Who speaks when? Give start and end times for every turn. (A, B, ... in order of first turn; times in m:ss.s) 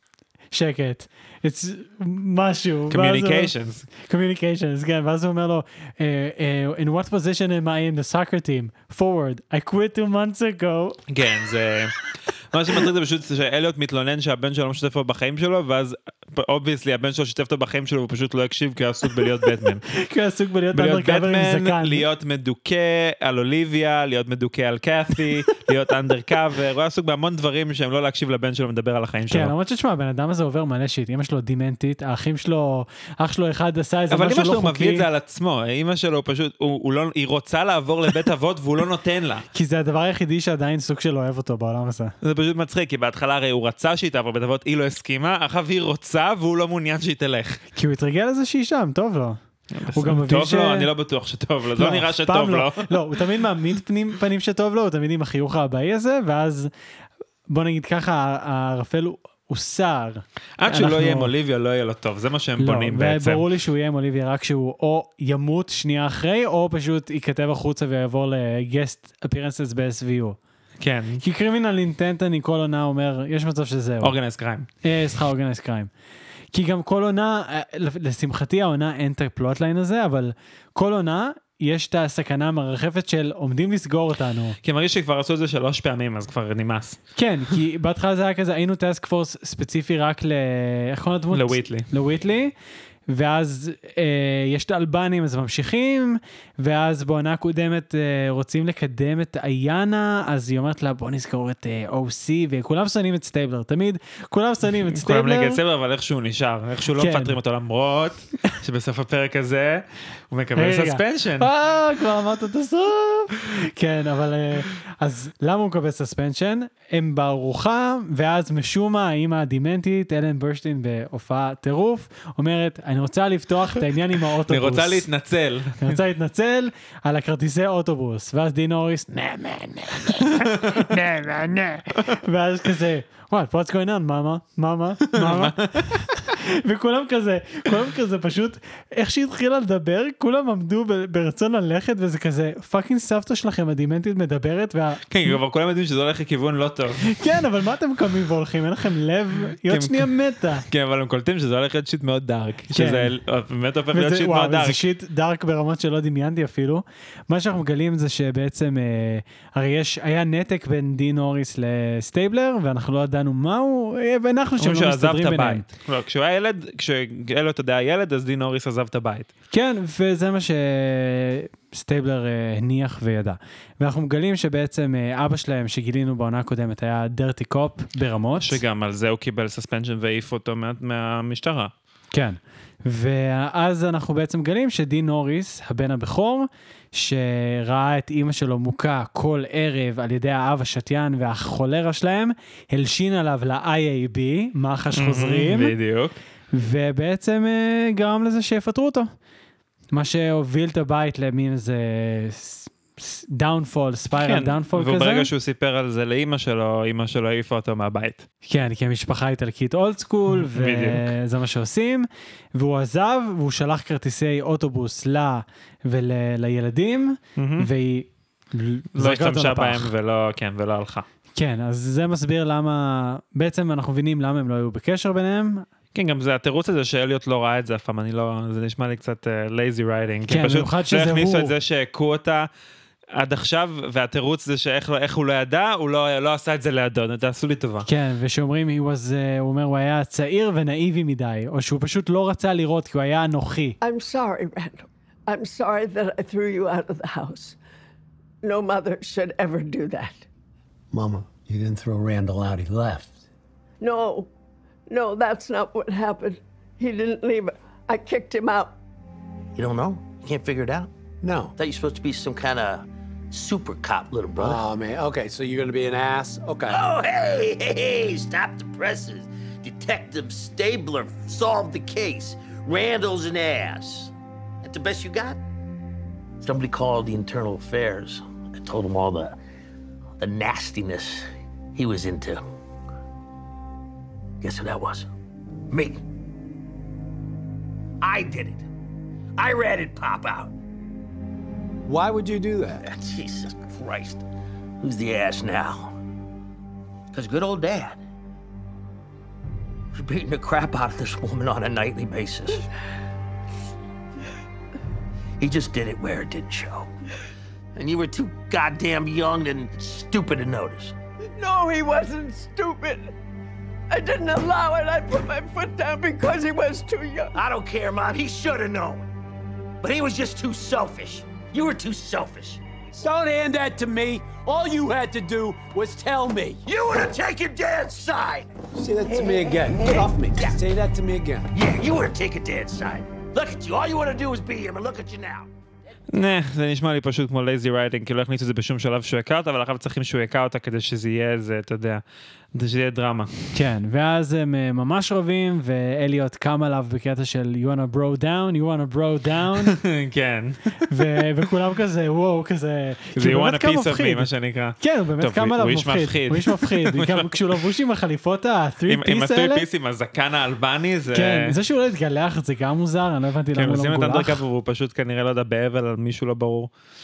0:00.5-0:11.0 A
0:02.9-0:03.9 B
0:11.1-0:12.0 B
0:12.5-0:19.9 B
0:19.9-0:22.0 A
0:20.7-0:29.5 B
0:29.3-0:35.1 A
0:34.1-0:39.5 B
0:39.5-0:42.2 A
0:42.2-0:47.6 B
0:47.8-0:49.4 A
0:49.7-0:53.0 B
0:49.9-0:50.9 A
0:51.8-0:56.7 A
0:57.5-1:01.3 A
1:00.6-1:03.4 B
1:02.6-1:10.4 A
1:10.8-1:11.2 B
1:11.2-1:14.1 A
1:14.0-1:14.7 B
1:14.8-1:15.9 A
1:16.5-1:24.6 A
1:24.6-1:27.0 B
1:27.2-1:32.5 A
1:31.3-1:31.9 B
1:33.1-1:45.6 A
1:44.9-1:51.5 B
1:47.0-1:47.4 A
1:50.6-2:05.1 A
2:04.5-2:06.0 B
2:05.8-2:25.4 A
2:10.4-2:10.9 B
2:15.1-2:16.0 B
2:25.1-2:27.1 B
2:27.1-2:30.6 A
2:29.7-2:30.1 B
2:30.7-2:34.8 B
2:32.7-2:33.1 A
2:33.9-2:45.6 A
2:44.6-2:49.3 B
2:49.5-2:58.6 A
2:58.4-3:01.7 B
3:02.1-3:15.7 A
3:15.0-3:16.2 B
3:16.5-3:19.1 A
3:19.9-3:25.3 A
3:24.2-3:28.3 B
3:28.5-3:39.9 A
3:30.5-3:31.1 B
3:37.4-3:37.7 B
3:39.0-3:41.0 B
3:41.4-3:45.7 A
3:45.9-3:52.5 B
3:50.3-3:51.5 A
3:53.2-3:57.9 B
3:57.9-4:03.8 A
4:03.8-4:07.6 C
4:08.4-4:10.3 C
4:10.9-4:13.1 D
4:13.8-4:14.3 C
4:14.9-4:18.8 C
4:19.6-4:20.9 E
4:21.2-4:21.5 D
4:21.6-4:24.7 E
4:24.4-4:26.8 D
4:26.7-4:34.1 E
4:34.6-4:35.4 E
4:36.4-4:39.4 E
4:40.2-4:42.4 E
4:44.4-4:45.1 E
4:45.7-4:46.0 E
4:48.0-4:48.6 E
4:49.4-4:50.5 E
4:51.9-4:52.8 D
4:52.8-4:54.2 E
4:54.8-4:55.9 E
4:57.1-4:58.0 E
4:59.9-5:02.7 E
5:05.4-5:06.9 E
5:07.8-5:10.9 E
5:11.3-5:13.1 C
5:13.9-5:17.3 C
5:17.3-5:19.1 E
5:19.8-5:22.6 E
5:23.0-5:26.6 D
5:26.7-5:28.5 E
5:28.7-5:31.5 D
5:29.1-5:30.6 E
5:31.5-5:35.5 E
5:36.1-5:42.0 B
5:42.6-5:43.5 B
5:43.5-5:49.8 A
5:49.7-5:51.0 B
5:50.9-5:54.3 A
5:53.2-5:57.5 B
5:54.8-5:59.6 A
5:58.9-6:01.5 B
6:01.1-6:04.4 A
6:03.6-6:06.7 B